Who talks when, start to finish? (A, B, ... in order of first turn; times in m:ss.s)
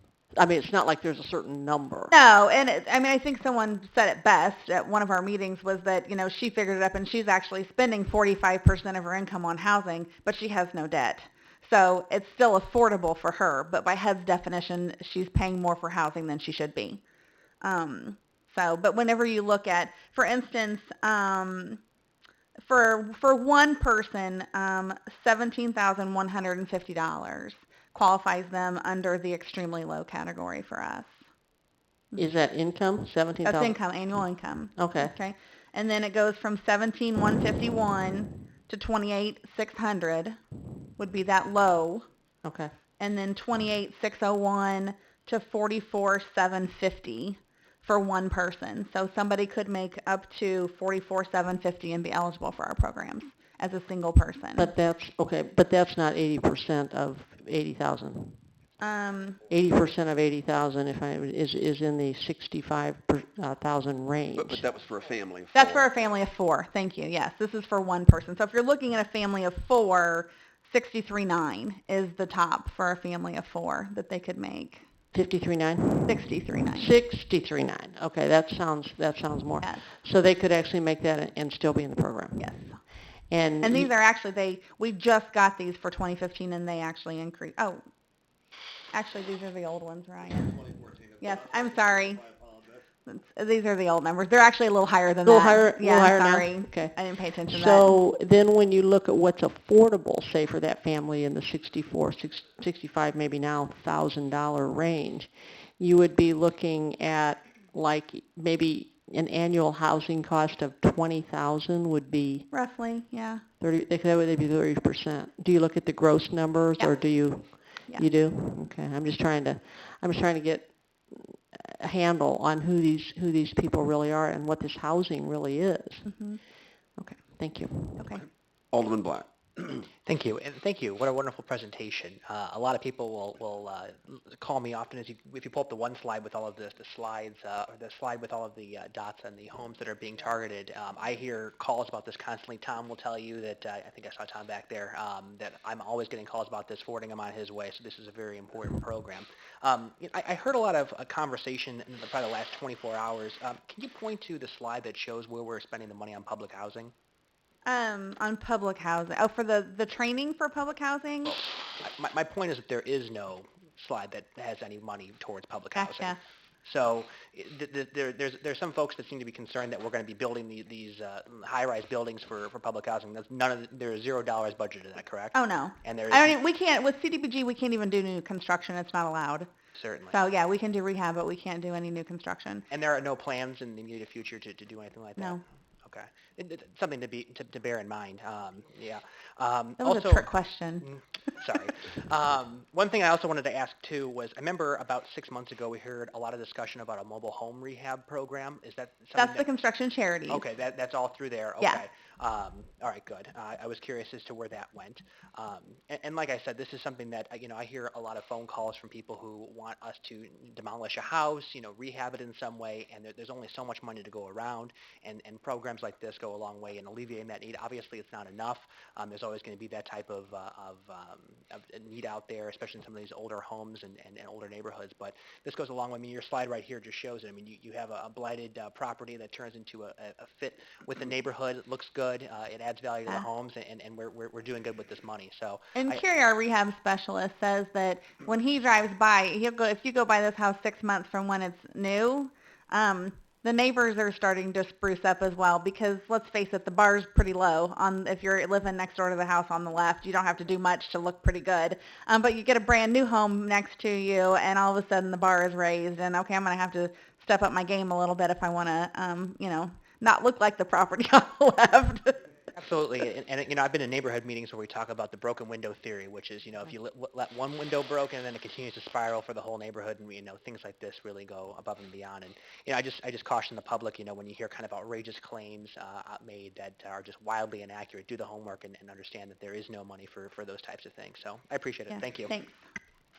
0:00.4-0:02.1 A
0:02.1-0:17.0 B
0:17.6-0:21.8 B
0:22.6-0:31.1 B
0:32.2-0:33.8 A
0:33.4-0:40.4 B
0:34.8-0:35.1 A
0:41.0-0:42.0 B
0:42.4-0:42.7 A
0:43.0-0:54.7 B
0:54.6-0:58.4 A
0:58.8-0:59.4 B
0:59.5-1:04.6 A
1:04.4-1:05.9 C
1:05.5-1:14.8 B
1:15.1-1:22.5 A
1:16.0-1:16.9 B
1:19.6-1:19.8 B
1:22.4-1:22.8 B
1:23.3-1:23.9 A
1:23.6-1:27.8 B
1:28.9-1:32.2 B
1:33.1-1:38.0 B
1:35.2-1:36.9 A
1:37.5-1:52.5 A
1:52.5-1:53.4 B
1:53.6-2:06.0 A
1:56.8-1:58.0 B
2:06.0-2:06.4 B
2:07.3-2:08.1 A
2:08.0-2:08.2 B
2:08.7-2:09.3 C
2:10.0-2:36.9 D
2:37.6-2:41.4 B
2:41.3-2:56.3 D
2:45.7-2:46.2 B
2:55.3-2:59.5 B
2:59.7-3:00.2 D
3:00.1-3:02.6 B
3:02.7-3:10.3 D
3:09.8-3:10.9 B
3:10.8-3:19.4 D
3:19.1-3:20.4 B
3:20.3-3:56.0 D
3:55.7-4:22.3 B
4:22.5-4:42.3 D
4:41.9-4:42.6 B